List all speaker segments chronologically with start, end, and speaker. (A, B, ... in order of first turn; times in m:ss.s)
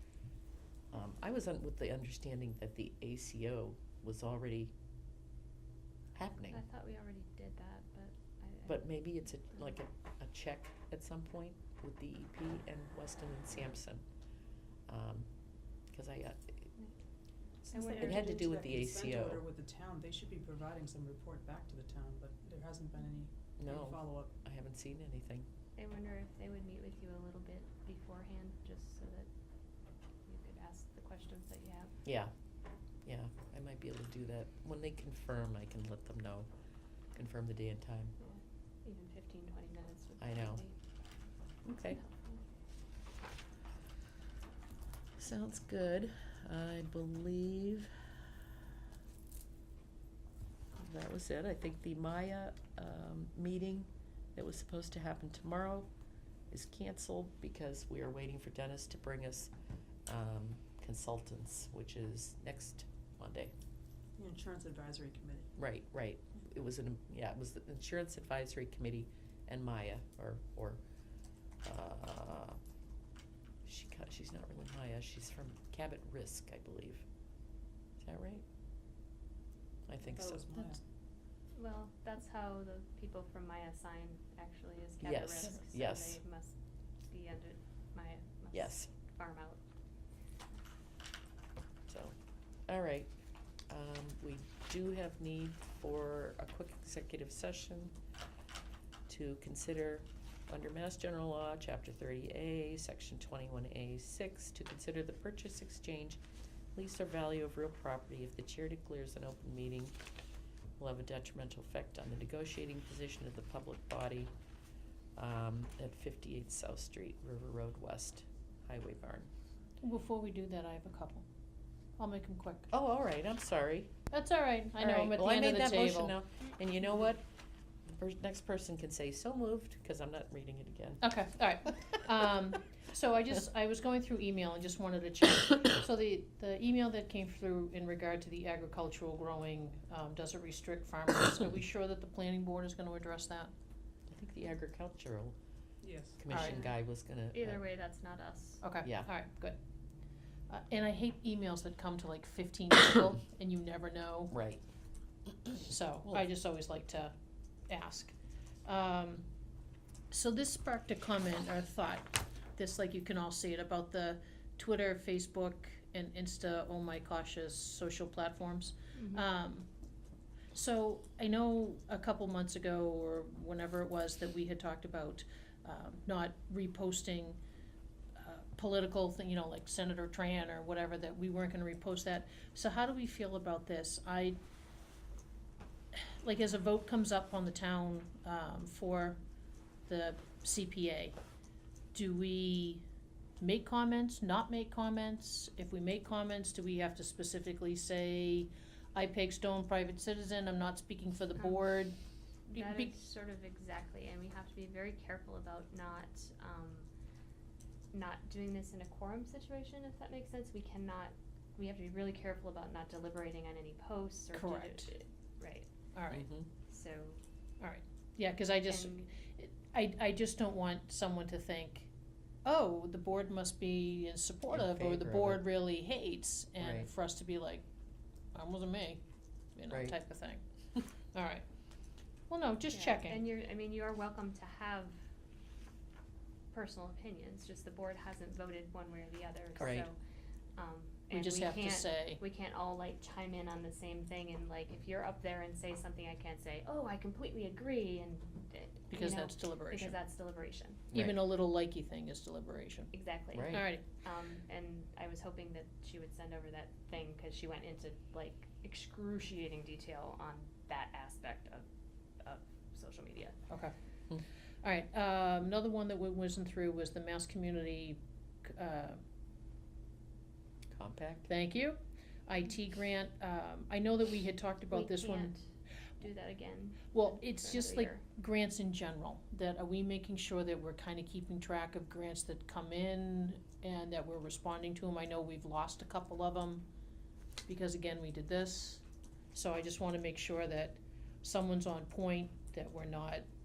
0:00.9-0:04.7 A
0:06.1-0:06.6 A
0:06.5-0:08.9 B
0:08.6-0:14.0 A
0:14.9-0:15.3 A
0:15.9-0:16.7 A
0:17.7-0:24.3 C
0:17.7-0:18.3 B
0:17.9-0:19.4 A
0:23.6-0:25.5 A
0:25.8-0:29.3 B
0:30.3-0:31.9 B
0:32.0-0:32.3 A
0:33.0-0:36.5 A
0:37.1-0:38.1 A
0:38.2-0:40.7 B
0:40.2-0:40.6 A
0:41.6-0:42.0 A
0:41.9-0:42.4 B
0:45.2-0:47.9 A
0:50.8-0:55.9 A
0:56.5-0:59.5 A
1:00.0-1:03.5 A
1:04.2-1:05.5 C
1:05.6-1:10.8 A
1:11.6-1:12.6 A
1:13.6-1:17.0 A
1:18.0-1:18.4 A
1:19.9-1:20.6 A
1:20.0-1:20.8 C
1:21.5-1:26.5 B
1:25.0-1:26.2 A
1:27.1-1:29.6 B
1:28.5-1:28.9 A
1:31.9-1:32.1 A
1:32.7-1:33.1 A
1:33.7-1:37.9 A
1:39.1-1:46.2 A
1:46.7-1:49.9 A
1:50.8-1:54.3 A
1:55.2-1:59.3 A
1:59.8-2:01.2 D
2:02.0-2:02.7 D
2:02.7-2:03.9 A
2:04.1-2:06.2 D
2:04.8-2:07.2 A
2:07.9-2:11.0 A
2:11.0-2:23.5 D
2:24.1-2:25.4 A
2:25.8-2:26.2 C
2:26.2-2:27.6 A
2:26.3-2:26.6 D
2:27.3-2:28.6 B
2:28.6-2:29.6 D
2:30.5-2:34.3 D
2:34.3-2:34.6 A
2:35.6-2:37.1 D
2:37.7-2:38.1 D
2:38.6-2:39.2 D
2:40.1-2:49.7 D
2:48.9-2:49.2 B
2:50.5-2:57.4 D
2:58.2-3:04.4 D
3:05.9-3:09.2 D
3:09.9-3:11.1 D
3:11.9-3:12.8 D
3:13.4-3:22.0 D
3:21.4-3:21.6 B
3:22.5-3:26.9 B
3:22.5-3:22.9 D
3:27.9-3:35.7 B
3:34.3-3:34.9 D
3:35.9-3:36.3 D
3:36.1-3:36.5 A
3:36.7-3:37.2 B
3:37.6-3:41.9 D
3:38.6-3:39.1 B
3:42.4-3:47.6 D
3:44.5-3:45.5 A
3:46.6-3:46.9 A
3:48.3-3:49.0 D
3:49.5-3:50.4 D
3:49.7-3:49.9 A
3:51.1-3:51.4 D
3:52.3-3:53.2 D
3:52.7-3:55.0 B
3:56.5-4:00.0 B
3:59.6-3:59.9 A
4:00.6-4:10.8 B
4:01.1-4:02.2 D
4:08.9-4:10.0 D
4:10.9-4:12.9 D
4:12.9-4:21.6 B
4:13.3-4:13.7 A
4:13.5-4:13.9 D
4:22.2-4:23.4 B
4:24.6-4:29.0 D
4:30.7-4:31.3 A
4:31.3-4:35.3 D
4:34.7-4:35.4 B
4:36.0-4:38.0 B
4:36.9-4:46.6 D
4:47.5-4:53.2 D